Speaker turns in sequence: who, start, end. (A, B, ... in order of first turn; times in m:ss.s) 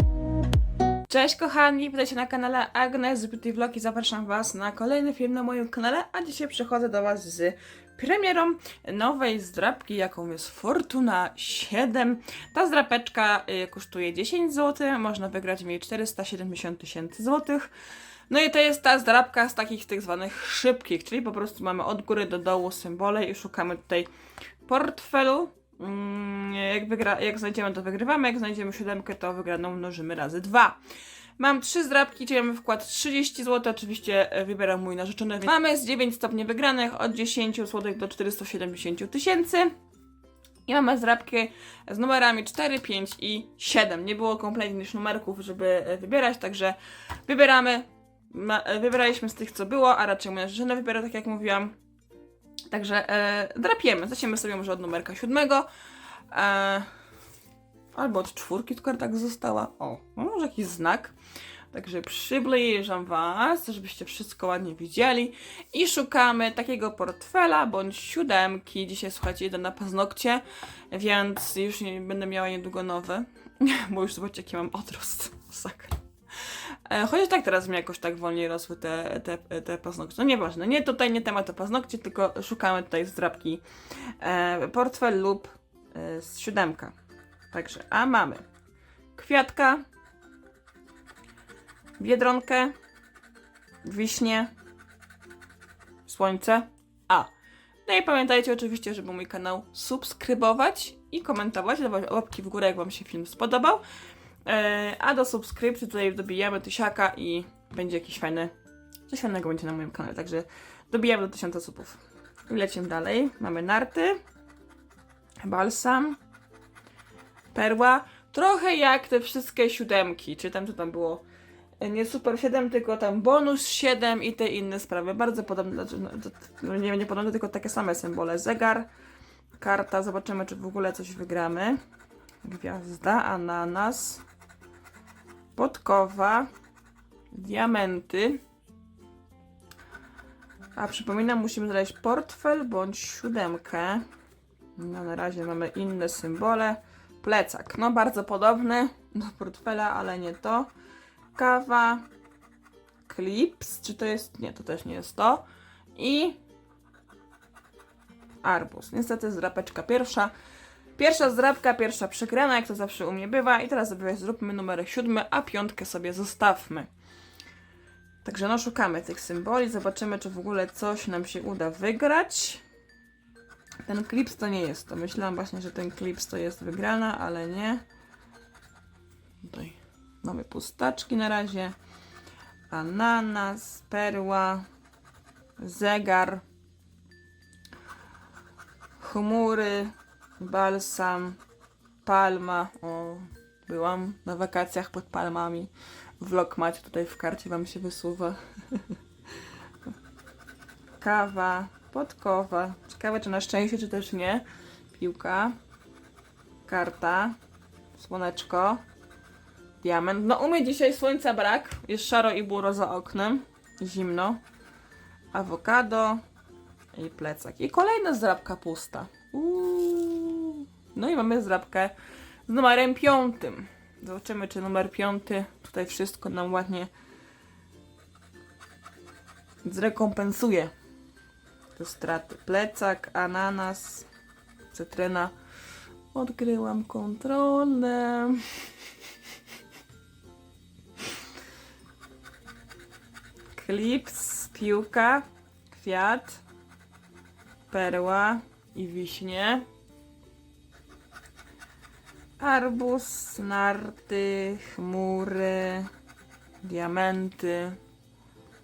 0:01.1-0:17.7 A
0:18.3-0:24.1 A
0:24.6-0:30.8 A
0:31.4-0:39.7 A
0:40.6-0:51.7 A
0:52.7-0:55.7 A
0:56.3-0:56.9 A
0:57.9-1:01.1 A
1:01.7-1:23.6 A
1:24.2-1:26.9 A
1:27.5-1:28.4 A
1:29.1-1:29.8 A
1:32.0-1:32.7 A
1:33.8-1:34.5 A
1:36.0-1:37.3 A
1:37.8-1:43.8 A
1:44.4-1:48.5 A
1:49.1-1:54.2 A
1:55.4-1:56.2 A
1:57.5-2:01.2 A
2:01.8-2:08.9 A
2:09.6-2:11.8 A
2:12.4-2:14.2 A
2:15.5-2:16.5 A
2:17.3-2:18.4 A
2:20.8-2:24.0 A
2:24.8-2:30.7 A
2:31.3-2:32.0 A
2:33.0-2:35.4 A
2:35.9-2:36.4 A
2:38.4-2:40.3 A
2:41.0-2:46.9 A
2:48.2-2:52.6 A
2:53.8-2:57.8 A
2:59.4-3:01.7 A
3:02.7-3:04.6 A
3:05.6-3:06.4 A
3:09.0-3:11.4 A
3:12.0-3:18.9 A
3:21.0-3:25.6 A
3:26.6-3:27.4 A
3:28.0-3:28.8 A
3:29.8-3:34.4 A
3:35.3-3:36.2 A
3:36.9-3:41.9 A
3:42.5-3:46.9 A
3:49.6-3:50.7 A
3:51.7-3:54.1 A
3:54.7-3:55.3 A
3:56.1-3:58.4 A
4:03.5-4:06.4 A
4:07.7-4:09.6 A
4:12.4-4:15.9 A
4:16.6-4:17.8 A